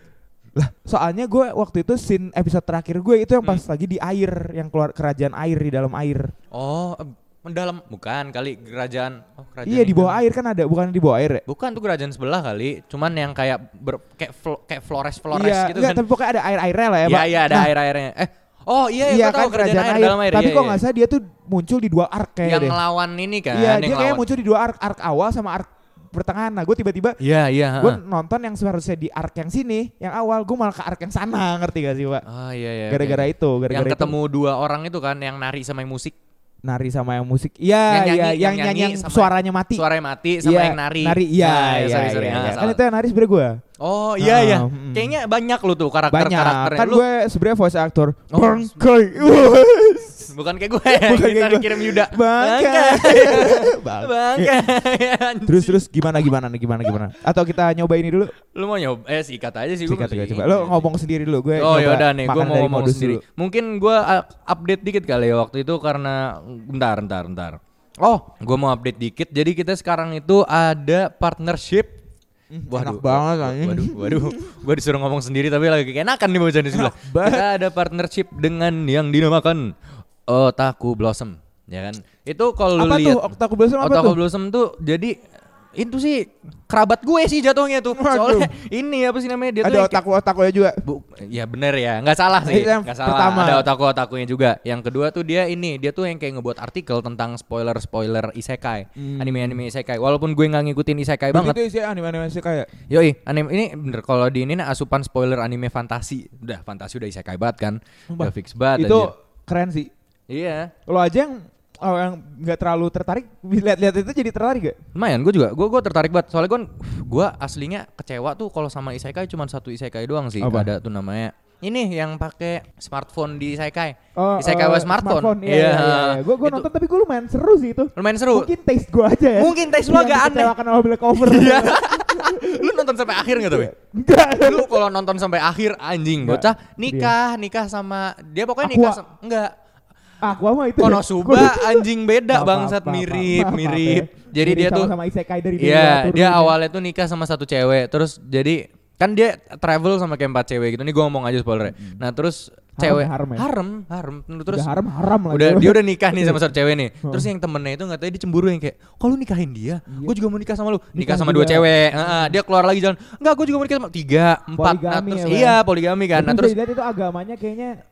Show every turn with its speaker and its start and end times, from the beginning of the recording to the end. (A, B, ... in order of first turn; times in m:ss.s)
0:00.6-0:06.3 A
0:06.5-0:10.2 B
0:09.6-0:11.4 A
0:11.5-0:16.0 B
0:15.3-0:17.7 A
0:17.0-0:20.8 B
0:19.0-0:22.8 A
0:22.4-0:24.2 B
0:23.5-0:27.2 A
0:27.2-0:28.0 B
0:27.8-0:32.2 A
0:32.2-0:36.1 B
0:32.9-0:34.2 A
0:36.6-0:39.8 A
0:37.9-0:42.8 B
0:40.4-0:43.6 A
0:43.8-0:47.0 B
0:44.2-0:45.2 A
0:46.1-0:50.3 A
0:48.3-0:49.6 B
0:50.3-0:55.8 B
0:50.9-0:54.6 A
0:55.4-0:58.3 A
0:58.4-1:00.9 B
0:59.8-1:03.2 A
1:01.6-1:11.9 B
1:12.5-1:14.5 A
1:12.7-1:19.7 B
1:16.7-1:17.5 A
1:20.3-1:23.2 B
1:22.8-1:24.2 A
1:23.8-1:25.1 B
1:25.8-1:30.0 B
1:27.9-1:28.5 A
1:29.6-1:30.8 A
1:30.8-1:41.6 B
1:32.4-1:33.7 A
1:39.0-1:39.6 A
1:41.3-1:42.7 A
1:42.9-1:49.1 B
1:48.1-1:49.9 A
1:50.3-1:50.7 B
1:50.9-1:54.8 A
1:54.9-2:06.7 B
2:00.4-2:00.7 A
2:04.2-2:14.8 A
2:08.0-2:08.5 B
2:09.3-2:10.5 B
2:11.2-2:13.7 B
2:14.4-2:19.5 B
2:16.2-2:17.1 A
2:18.6-2:19.0 A
2:20.2-2:26.6 A
2:20.8-2:24.9 B
2:25.6-2:34.7 B
2:31.7-2:32.0 A
2:32.8-2:33.4 A
2:34.5-2:36.4 A
2:35.3-2:46.6 B
2:37.0-2:37.3 A
2:39.9-2:40.2 A
2:40.9-2:42.4 A
2:44.5-2:45.6 A
2:46.1-2:47.7 A